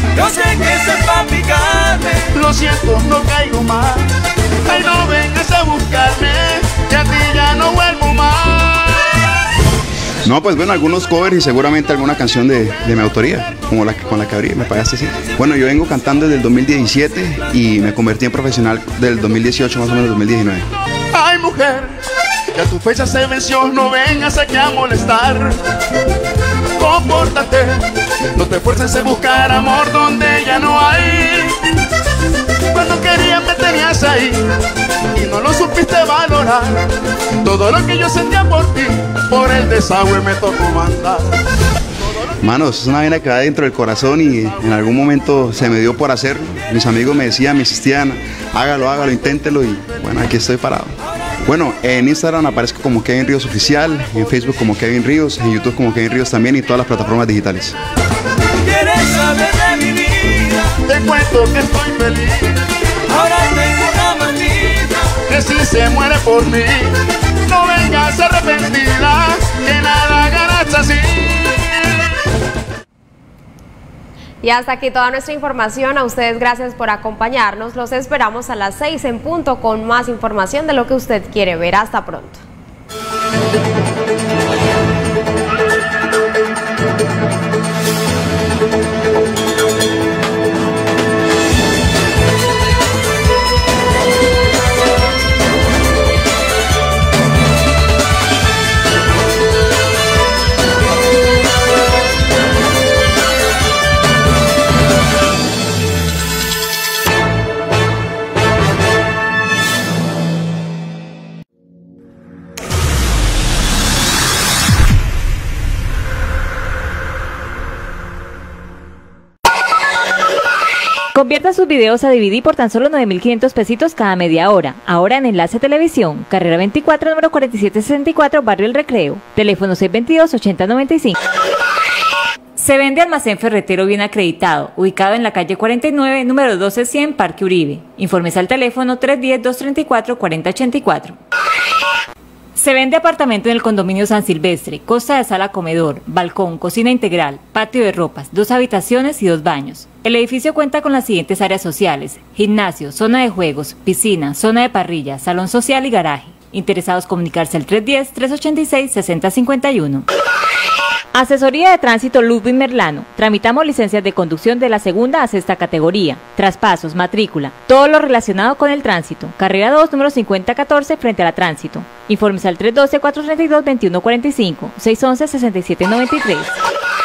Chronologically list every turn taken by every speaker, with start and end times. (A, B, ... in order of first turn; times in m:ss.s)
0:02.3-0:09.1 A
0:10.2-0:20.6 B
0:21.1-0:22.0 A
0:22.5-0:25.6 A
0:26.8-0:27.8 A
0:28.4-0:31.6 A
0:32.7-0:34.4 A
0:35.1-0:36.8 A
0:37.4-0:41.3 A
0:42.4-0:57.8 B
1:00.8-1:02.6 A
1:05.3-1:06.9 A
1:07.5-1:11.7 A
1:14.4-1:22.4 C
2:01.1-2:11.1 D
2:12.6-2:21.2 D
2:22.6-2:40.0 D
2:41.1-2:56.6 D